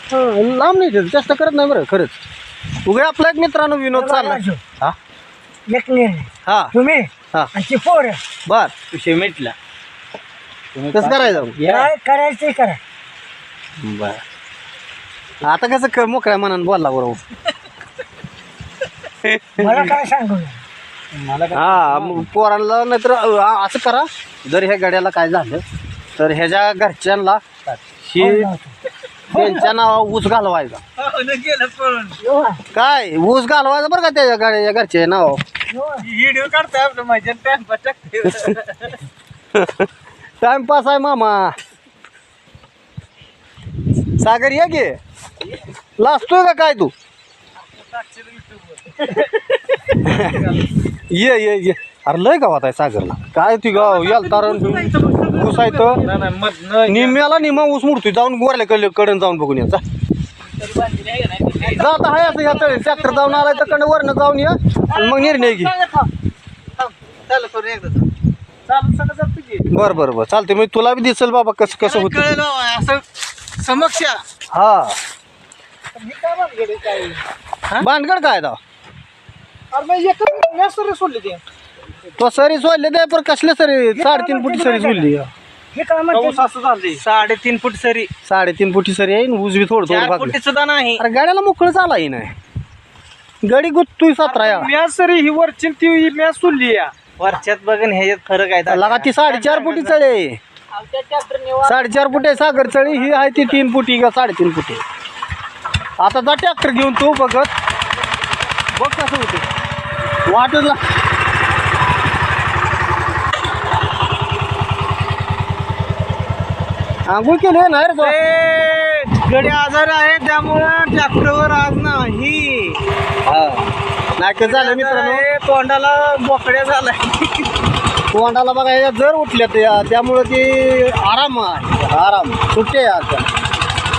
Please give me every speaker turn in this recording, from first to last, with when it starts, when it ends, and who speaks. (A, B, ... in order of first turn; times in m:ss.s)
0:00.1-0:02.1 A
0:02.8-0:04.9 A
0:03.9-0:04.6 B
0:05.7-0:08.2 B
0:06.5-0:06.7 A
0:08.5-0:08.7 A
0:08.9-0:09.6 C
0:10.8-0:11.9 C
0:10.9-0:11.6 A
0:11.7-0:12.8 B
0:13.8-0:14.2 A
0:15.4-0:17.2 A
0:19.2-0:19.8 A
0:19.6-0:20.6 B
0:21.1-0:22.3 C
0:21.5-0:25.6 A
0:26.2-0:27.4 A
0:28.0-0:28.5 A
0:28.2-0:28.7 B
0:29.3-0:30.8 A
0:29.3-0:29.7 C
0:31.0-0:32.2 C
0:32.2-0:32.6 B
0:32.7-0:35.4 A
0:35.7-0:36.1 B
0:36.0-0:39.1 C
0:39.6-0:39.9 A
0:40.4-0:41.6 A
0:44.2-0:45.0 A
0:46.0-0:46.9 A
0:47.6-0:50.7 C
0:49.9-0:50.4 A
0:51.1-0:56.0 A
0:53.7-0:57.6 C
0:56.9-0:59.8 A
1:00.5-1:03.8 C
1:01.6-1:05.7 A
1:04.9-1:06.1 C
1:06.8-1:08.1 C
1:08.7-1:10.0 C
1:09.7-1:12.3 A
1:11.7-1:13.0 C
1:13.6-1:14.2 C
1:14.5-1:15.0 A
1:16.0-1:17.9 C
1:17.8-1:18.6 A
1:19.7-1:21.4 C
1:22.2-1:25.3 A
1:24.0-1:25.0 B
1:25.8-1:26.4 B
1:26.1-1:28.1 C
1:28.2-1:30.4 A
1:29.9-1:31.0 C
1:31.0-1:32.3 A
1:33.4-1:34.7 A
1:34.2-1:40.0 C
1:38.7-1:40.4 A
1:40.7-1:43.7 C
1:41.6-1:44.8 A
1:46.0-1:47.5 A
1:48.8-1:49.4 A
1:50.3-1:50.8 A
1:57.1-1:58.2 A
1:58.0-2:02.9 C
2:03.3-2:05.2 A
2:04.4-2:07.5 C
2:08.1-2:13.3 A